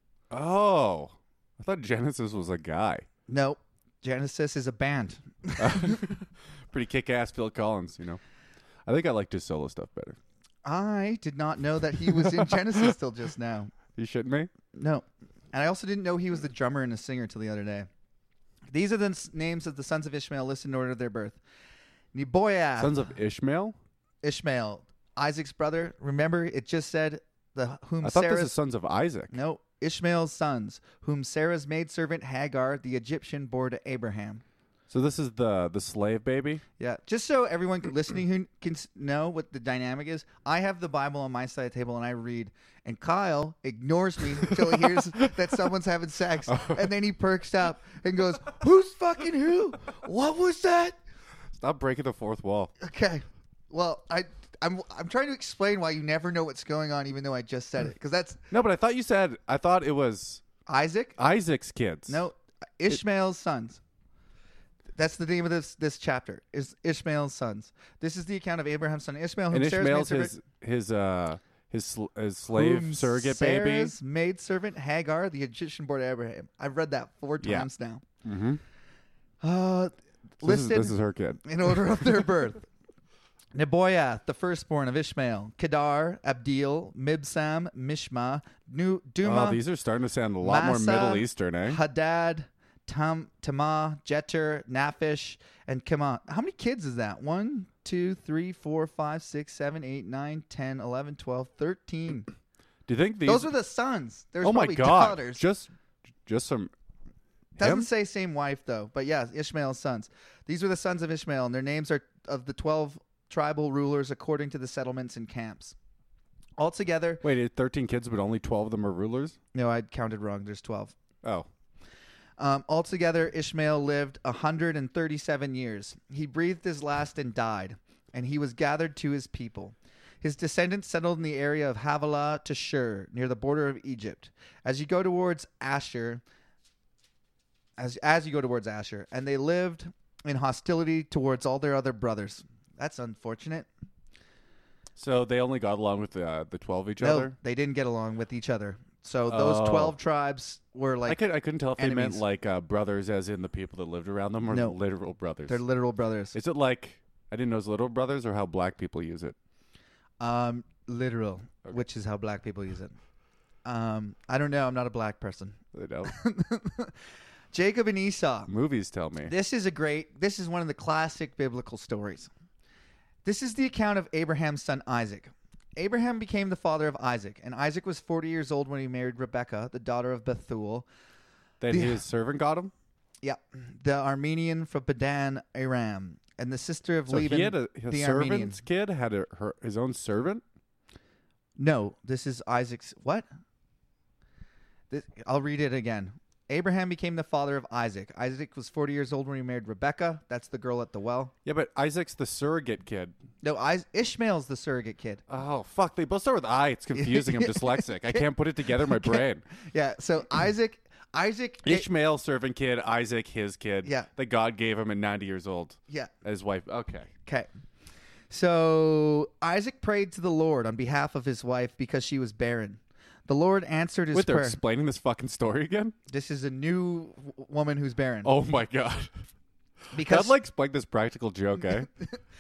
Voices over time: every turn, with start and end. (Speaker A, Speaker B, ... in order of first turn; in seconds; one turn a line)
Speaker A: 0.3-3.1
Speaker B: 3.3-6.0
Speaker A: 5.6-8.2
Speaker A: 8.9-10.2
Speaker B: 10.7-13.7
Speaker A: 12.1-12.9
Speaker A: 13.9-14.5
Speaker B: 14.7-17.9
Speaker B: 18.7-21.4
Speaker B: 22.1-23.1
Speaker A: 22.8-23.8
Speaker B: 24.2-28.6
Speaker A: 28.0-29.3
Speaker B: 29.3-34.4
Speaker A: 34.9-36.6
Speaker B: 36.8-51.0
Speaker A: 46.5-46.8
Speaker A: 51.5-52.7
Speaker B: 52.8-58.4
Speaker A: 58.5-60.4
Speaker B: 60.7-61.2
Speaker A: 61.2-62.2
Speaker B: 62.1-63.8
Speaker B: 65.0-70.3
Speaker A: 69.5-73.9
Speaker B: 72.5-78.0
Speaker A: 77.4-77.7
Speaker A: 78.2-78.6
Speaker B: 79.4-82.7
Speaker A: 80.4-82.0
Speaker B: 83.5-89.6
Speaker A: 89.2-91.8
Speaker B: 90.4-102.3
Speaker A: 102.9-103.5
Speaker B: 103.2-105.4
Speaker A: 104.4-105.7
Speaker A: 106.3-106.7
Speaker A: 107.6-107.9
Speaker B: 107.6-115.8
Speaker B: 116.6-117.2
Speaker A: 117.2-119.4
Speaker B: 119.5-121.0
Speaker B: 122.4-136.2
Speaker B: 137.8-143.7
Speaker A: 145.0-147.3
Speaker B: 147.0-151.2
Speaker A: 149.3-150.0
Speaker A: 151.1-155.6
Speaker B: 151.8-152.2
Speaker B: 154.5-154.8
Speaker B: 155.5-156.4
Speaker A: 156.3-159.4
Speaker B: 160.2-163.0
Speaker B: 163.7-166.9
Speaker A: 165.7-166.1
Speaker B: 167.5-168.5
Speaker A: 168.5-169.3
Speaker B: 169.2-172.3
Speaker B: 173.2-180.9
Speaker A: 181.6-182.7
Speaker B: 181.7-182.0
Speaker B: 183.2-188.6
Speaker A: 187.1-190.4
Speaker B: 191.6-193.3
Speaker B: 194.9-201.3
Speaker A: 201.4-203.1
Speaker B: 203.4-205.2
Speaker A: 205.3-209.4
Speaker B: 206.9-211.9
Speaker A: 211.6-217.1
Speaker B: 218.3-224.6
Speaker A: 224.1-225.9
Speaker B: 226.1-228.3
Speaker A: 228.2-229.1
Speaker B: 229.9-230.3
Speaker A: 230.0-231.9